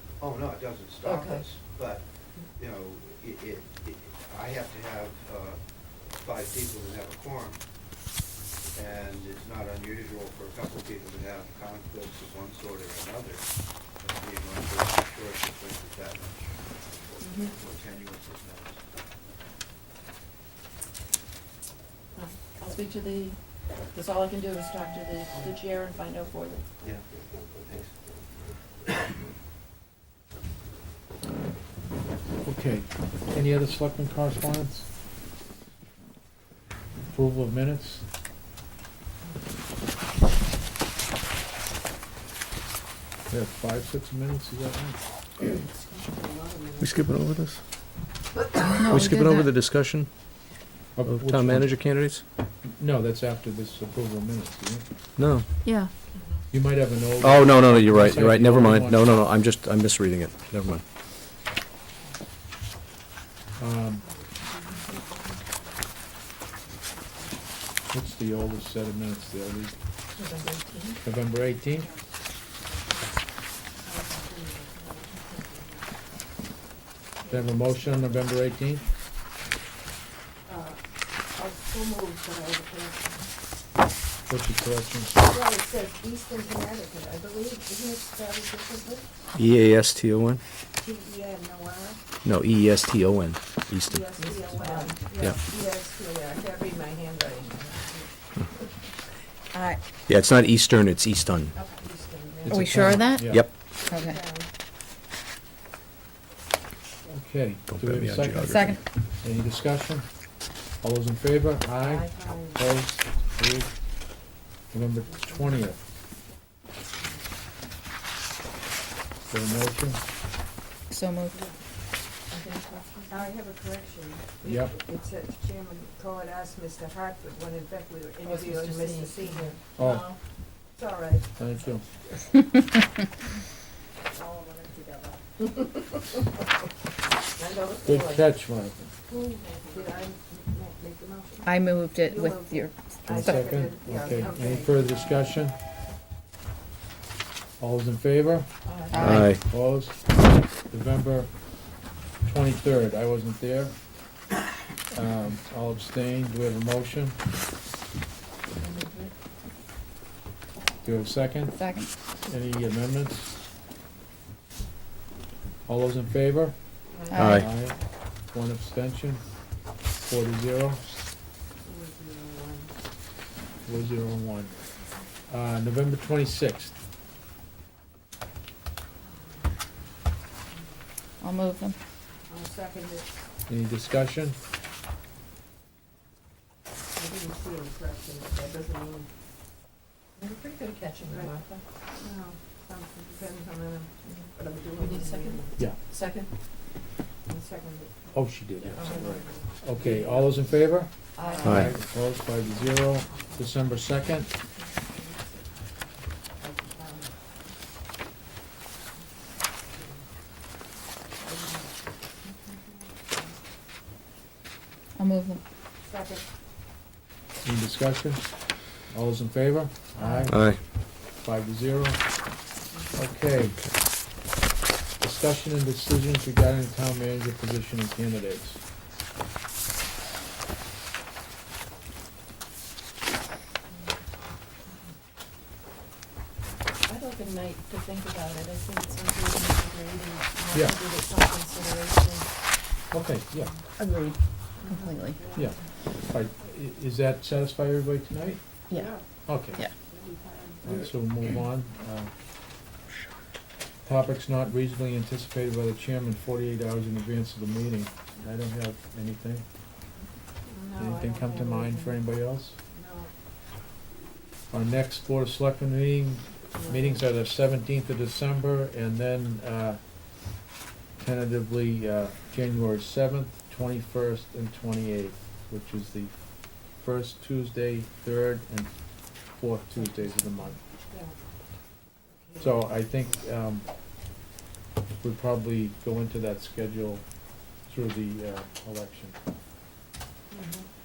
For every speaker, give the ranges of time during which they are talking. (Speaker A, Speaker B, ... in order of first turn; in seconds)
Speaker A: 0.2-7.6, 8.7-18.8, 26.8-28.0
Speaker B: 1.0-1.4, 17.2-17.5, 22.1-26.6, 70.1-71.0, 94.2-95.2, 111.8-112.1, 122.3-123.3, 128.2-130.2, 134.1-135.2, 137.3-138.2, 139.4-139.9, 148.6-149.2, 158.6-159.1, 190.2-191.6, 194.0-196.3, 198.7-200.3, 201.1-201.7, 220.0-220.3, 236.8-242.3, 243.8-244.1, 244.7-245.2, 248.7-249.7
Speaker C: 32.4-34.9, 37.1-38.0, 43.3-45.0, 51.0-52.0, 52.6-54.8, 56.5-59.2, 63.6-64.1, 67.9-69.7, 71.0-71.9, 77.3-78.8, 84.3-85.2, 102.4-103.5, 107.1-110.2, 110.8-113.8, 114.7-115.8, 119.3-120.0, 124.4-124.8, 129.8-130.1, 131.3-131.8, 137.8-138.9, 143.1-145.5, 147.6-151.6, 152.2-153.8, 154.9-157.2, 160.8-161.6, 162.2-163.3, 165.7-170.8, 173.7-174.6, 175.3-176.7, 183.5-184.4, 198.1-204.3, 217.4-222.3, 222.9-223.7, 225.0-228.6, 240.5-240.8, 242.9-243.6, 245.3-248.4, 249.2-249.6, 250.6-252.1, 253.8-259.4, 260.8-262.6, 264.5-269.8, 271.0-280.6, 282.4-283.6, 285.0-287.0, 287.6-289.1
Speaker D: 45.6-46.9, 73.8-75.6, 80.5-80.8, 81.4-83.2, 85.3-89.0, 90.8-92.0, 93.9-98.1, 101.5-102.8, 103.8-104.5, 123.1-129.6, 130.7-131.3, 139.1-144.8, 171.6-172.7, 179.1-179.5, 182.3-183.1, 186.9-189.1, 192.0-195.5, 197.3-197.9, 198.7-199.4, 201.2-201.6, 206.4-207.1, 209.7-210.0, 211.2-211.7, 215.8-216.2, 244.6-245.4, 248.8-250.7, 260.5-261.9, 262.7-263.1, 266.6-266.9, 290.3-290.6
Speaker E: 46.8-47.6, 48.8-50.1, 51.0-52.2, 55.2-55.5, 57.2-60.8, 89.3-90.4, 92.2-94.2, 95.1-95.4, 100.1-101.5, 103.2-103.5, 107.7-108.7, 149.0-149.4, 167.2-167.5, 201.4-201.7, 220.3-220.6
Speaker F: 48.8-49.5, 99.5-99.8, 102.5-104.2, 108.5-108.8, 120.9-121.4, 141.4-143.6, 148.9-149.2, 161.6-161.9, 167.1-167.4, 181.2-181.8, 215.0-215.4